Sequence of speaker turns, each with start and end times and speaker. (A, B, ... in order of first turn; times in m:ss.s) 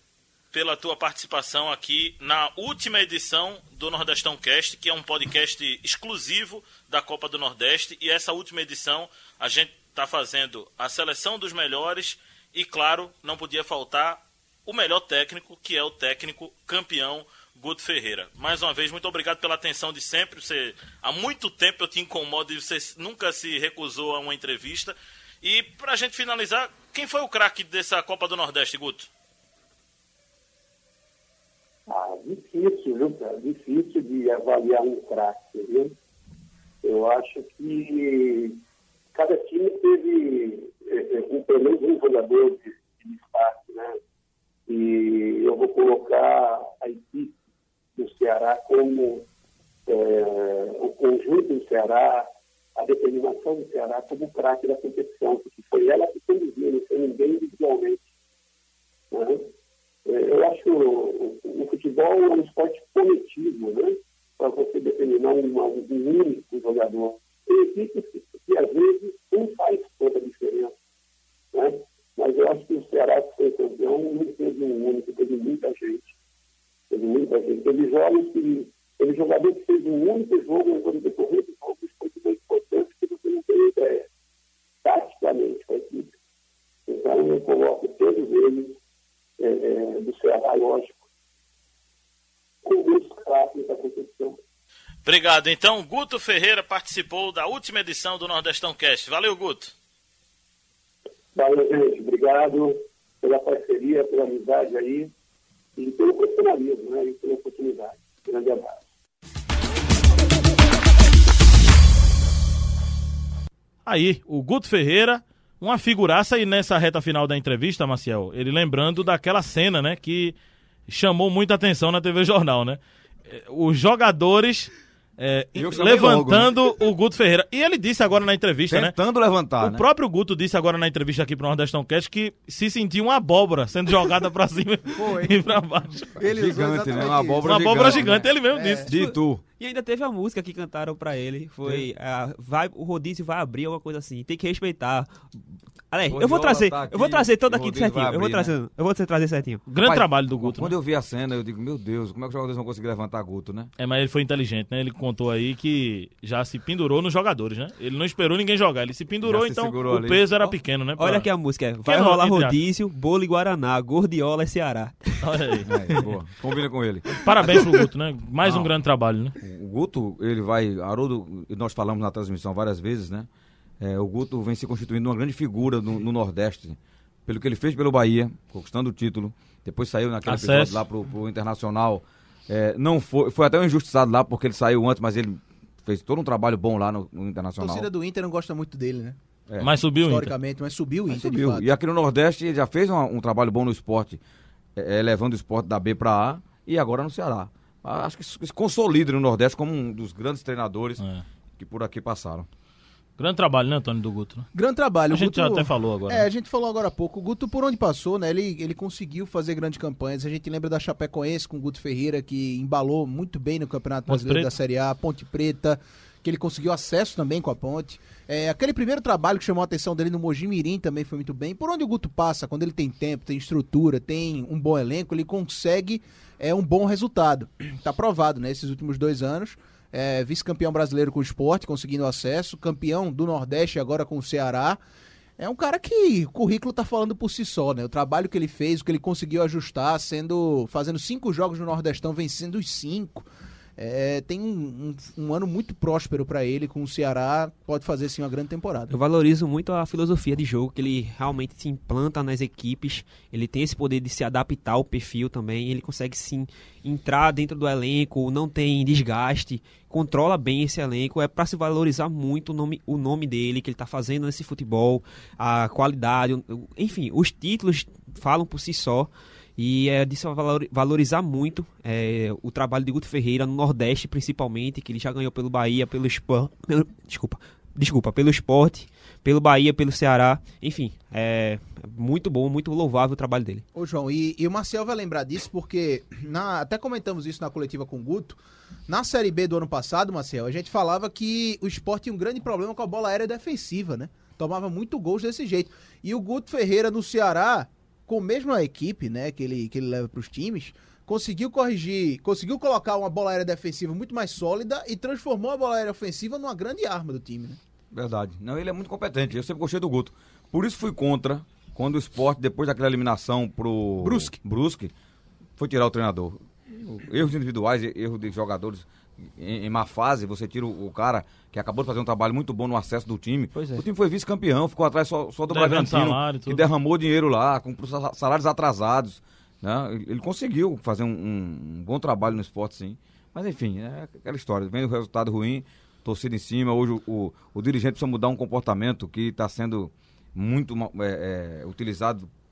0:00.5-0:29.1 A
0:31.9-0:35.9 B
0:36.8-0:38.6 B
0:39.1-0:44.0 B
0:44.7-0:47.4 B
0:48.0-0:49.2 B
0:49.9-0:58.0 B
0:59.1-0:59.4 B
1:00.1-1:10.7 B
1:11.5-1:16.1 B
1:16.9-1:24.1 B
1:24.8-1:26.1 B
1:26.9-1:28.8 B
1:29.4-1:31.0 B
1:32.6-1:34.4 B
1:35.1-1:39.7 A
1:41.4-1:45.1 B
1:45.8-1:48.8 B
1:53.9-2:00.4 A
2:00.9-2:09.0 A
2:05.6-2:06.6 C
2:08.7-2:09.8 C
2:09.6-2:16.2 A
2:16.2-2:18.9 D
2:16.2-2:19.4 C
2:17.5-2:18.9 A
2:18.9-2:25.2 E
2:25.9-2:29.7 E
2:26.1-2:28.5 C
2:29.7-2:30.7 A
2:29.8-2:33.7 C
2:33.8-2:41.3 A
2:39.2-2:40.4 C
2:41.0-2:45.3 E
2:41.8-2:42.6 A
2:45.2-2:46.2 A
2:45.7-2:47.8 C
2:47.2-2:49.4 A
2:48.4-2:48.7 C
2:49.4-2:53.3 C
2:53.8-3:07.9 C
3:00.3-3:00.8 A
3:07.6-3:09.2 D
3:09.5-3:09.7 C
3:09.6-3:10.3 A
3:10.0-3:11.7 D
3:11.1-3:14.2 C
3:14.8-3:21.0 C
3:21.6-3:22.5 C
3:23.2-3:24.5 A
3:24.6-3:54.8 D
3:25.1-3:26.3 A
3:34.1-3:34.5 A
3:55.4-4:03.3 D
4:03.8-4:08.9 D
4:08.9-4:43.6 E
4:43.8-5:07.6 D
5:07.9-5:14.9 C
5:14.0-5:14.4 D
5:15.6-5:42.3 C
5:23.6-5:23.8 E
5:25.5-5:26.7 A